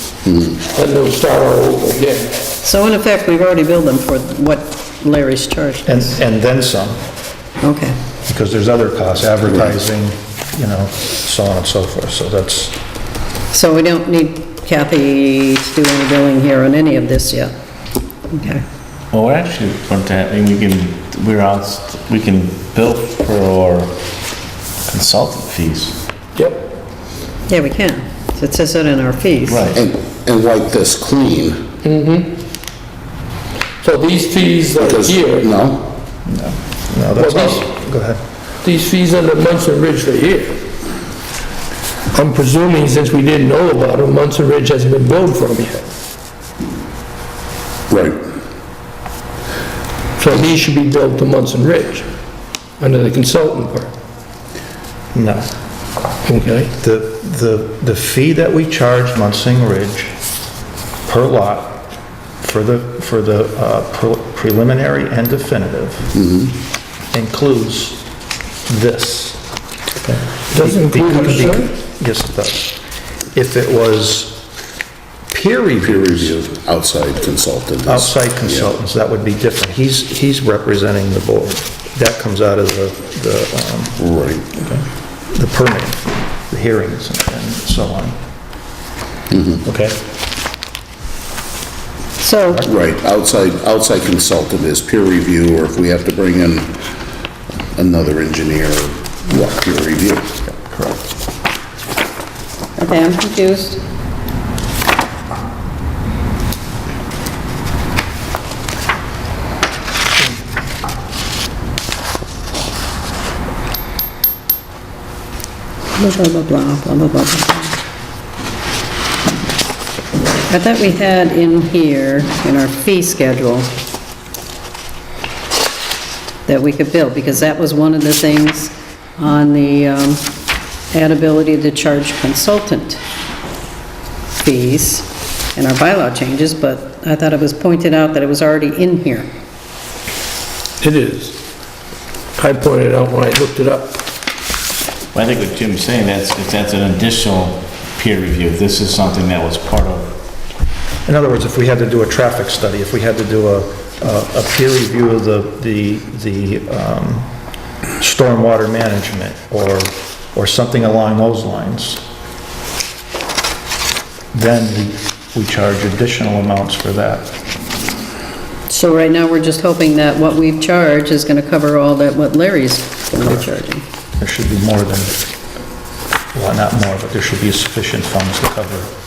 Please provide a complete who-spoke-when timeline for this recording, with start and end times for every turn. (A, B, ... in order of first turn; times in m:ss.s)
0:00.2-0:00.6 A
0:00.7-0:02.3 B
0:02.6-0:06.1 C
0:05.8-0:07.0 D
0:07.6-0:08.0 C
0:08.3-0:12.8 D
0:13.5-0:17.5 C
0:18.3-0:18.6 C
0:19.1-0:24.0 E
0:24.9-0:26.0 E
0:26.4-0:26.6 B
0:27.5-0:29.7 C
0:29.5-0:29.8 E
0:29.7-0:31.6 A
0:31.8-0:32.3 B
0:33.8-0:35.5 B
0:34.8-0:35.9 A
0:36.3-0:38.2 D
0:37.2-0:37.6 B
0:38.6-0:40.6 B
0:42.1-0:45.9 B
0:47.9-0:48.2 A
0:50.2-0:52.1 B
0:52.8-0:53.9 B
0:55.1-0:55.5 D
0:56.3-0:56.7 B
0:56.8-1:00.1 D
1:01.1-1:01.9 D
1:02.4-1:06.1 D
1:06.2-1:06.6 A
1:07.1-1:08.0 D
1:08.7-1:09.4 D
1:10.5-1:11.7 B
1:10.5-1:12.8 D
1:13.3-1:14.4 D
1:15.3-1:16.4 D
1:15.8-1:18.7 A
1:17.9-1:24.0 D
1:24.0-1:24.5 A
1:24.6-1:24.8 E
1:25.3-1:28.2 D
1:29.3-1:29.6 A
1:29.7-1:30.0 E
1:32.2-1:32.7 C
1:32.6-1:36.8 A
1:37.8-1:40.3 A
1:40.5-1:41.1 D
1:42.8-1:43.8 C
1:56.0-1:57.8 C
2:00.5-2:03.7 C
2:06.5-2:10.2 C
2:10.9-2:13.0 C
2:14.4-2:19.3 C
2:20.8-2:21.4 B
2:22.4-2:24.0 B
2:25.1-2:30.2 E
2:31.0-2:37.3 D
2:38.0-2:42.0 D
2:44.3-2:47.3 D
2:48.7-2:53.8 C
2:54.2-2:55.2 D
2:56.3-2:58.9 D